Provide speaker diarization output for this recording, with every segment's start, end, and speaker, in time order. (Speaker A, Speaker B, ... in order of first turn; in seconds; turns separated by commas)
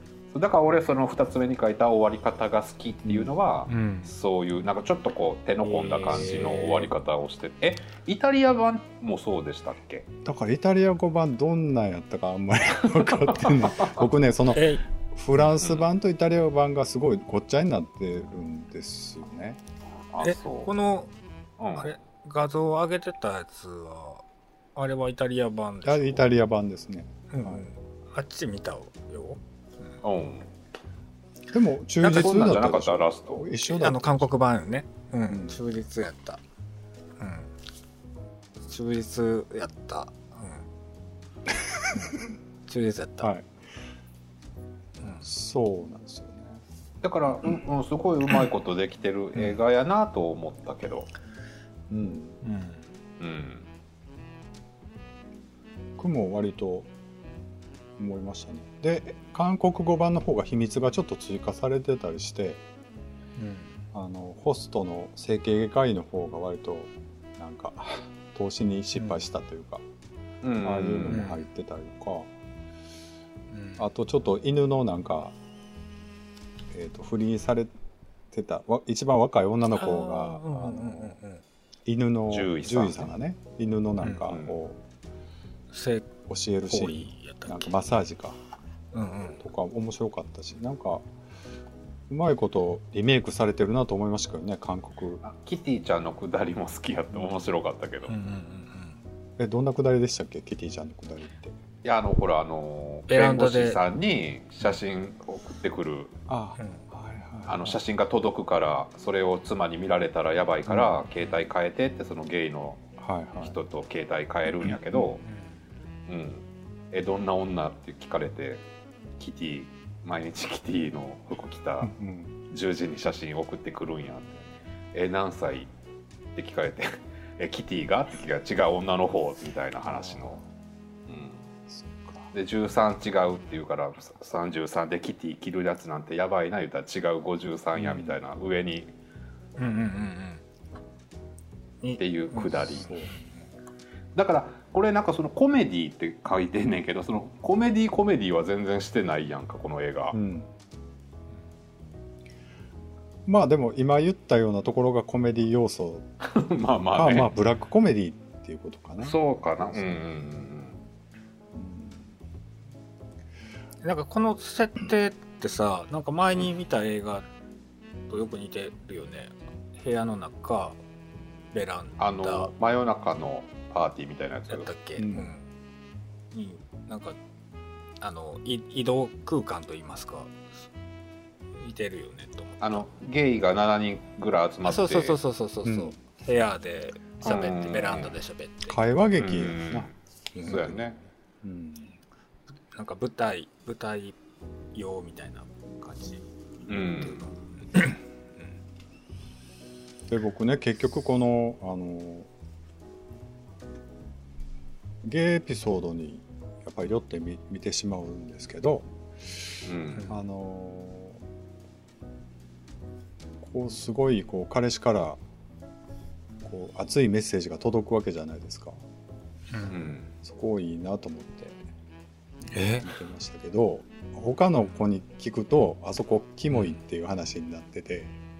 Speaker A: 0.3-10.1, Speaker B: 3.0-3.3, Speaker C: 3.7-4.1, Speaker C: 5.7-6.9, Speaker B: 10.2-19.6, Speaker C: 14.5-14.8, Speaker A: 15.6-15.8, Speaker A: 20.1-20.7, Speaker C: 20.2-21.1, Speaker A: 21.6-21.9, Speaker C: 21.8-24.2, Speaker C: 24.8-26.3, Speaker B: 25.8-27.7, Speaker C: 27.3-29.4, Speaker A: 30.0-30.5, Speaker B: 31.5-34.3, Speaker C: 32.0-32.6, Speaker A: 32.0-33.5, Speaker C: 33.6-36.4, Speaker B: 35.3-35.6, Speaker C: 37.2-37.5, Speaker C: 38.6-40.7, Speaker C: 42.7-43.3, Speaker B: 43.2-43.5, Speaker B: 45.2-46.6, Speaker A: 47.0-51.1, Speaker B: 51.9-52.4, Speaker C: 52.4-52.8, Speaker A: 53.2-53.7, Speaker B: 56.0-56.9, Speaker B: 58.0-62.6, Speaker C: 63.4-63.7, Speaker B: 63.9-69.8, Speaker C: 69.0-69.2, Speaker A: 70.4-71.2, Speaker B: 70.6-72.3, Speaker C: 71.1-71.4, Speaker C: 73.5-73.8, Speaker B: 73.8-75.3, Speaker B: 76.7-77.7, Speaker B: 78.3-81.2, Speaker C: 79.8-81.4, Speaker B: 81.9-84.8, Speaker A: 82.3-83.1, Speaker C: 84.0-84.3, Speaker A: 84.2-84.6, Speaker C: 85.7-86.1, Speaker B: 86.3-88.4, Speaker C: 86.7-87.7, Speaker C: 88.9-89.4, Speaker B: 89.4-91.1, Speaker B: 92.1-95.2, Speaker A: 95.2-98.1, Speaker C: 98.1-99.0, Speaker B: 99.4-101.6, Speaker A: 101.8-106.2, Speaker C: 103.1-103.8, Speaker B: 106.3-107.8, Speaker A: 107.5-112.8, Speaker B: 113.0-113.6, Speaker A: 113.4-115.2, Speaker A: 116.1-118.6, Speaker A: 119.2-121.9, Speaker B: 121.8-122.3, Speaker A: 122.5-124.3, Speaker A: 124.9-125.7, Speaker A: 126.3-130.4, Speaker A: 131.1-131.4, Speaker B: 131.7-132.3, Speaker A: 132.3-138.9, Speaker C: 139.6-140.4, Speaker C: 141.8-143.3, Speaker A: 142.0-143.0, Speaker B: 142.8-143.1, Speaker A: 144.2-150.2, Speaker B: 150.1-150.5, Speaker B: 153.3-156.1, Speaker A: 156.2-157.3, Speaker B: 156.9-159.9, Speaker A: 159.0-160.8, Speaker B: 161.5-162.1, Speaker C: 163.8-167.3, Speaker C: 168.1-170.8, Speaker C: 171.5-172.5, Speaker A: 172.0-174.7, Speaker C: 174.5-175.4, Speaker B: 175.0-175.3, Speaker C: 176.3-177.2, Speaker C: 178.0-180.5, Speaker C: 181.6-182.6, Speaker A: 182.6-185.2, Speaker C: 184.6-188.8, Speaker B: 185.7-185.9, Speaker A: 187.2-188.1, Speaker B: 188.7-192.0, Speaker A: 189.2-189.9, Speaker A: 190.4-191.0, Speaker C: 192.7-194.2, Speaker C: 194.7-196.2, Speaker A: 196.7-197.3, Speaker B: 200.1-202.3, Speaker B: 205.0-211.2, Speaker A: 209.7-210.1, Speaker B: 213.4-215.2, Speaker B: 216.4-218.8, Speaker C: 219.5-219.8, Speaker A: 219.7-220.1, Speaker B: 220.2-221.6, Speaker C: 222.5-222.9, Speaker B: 222.6-228.2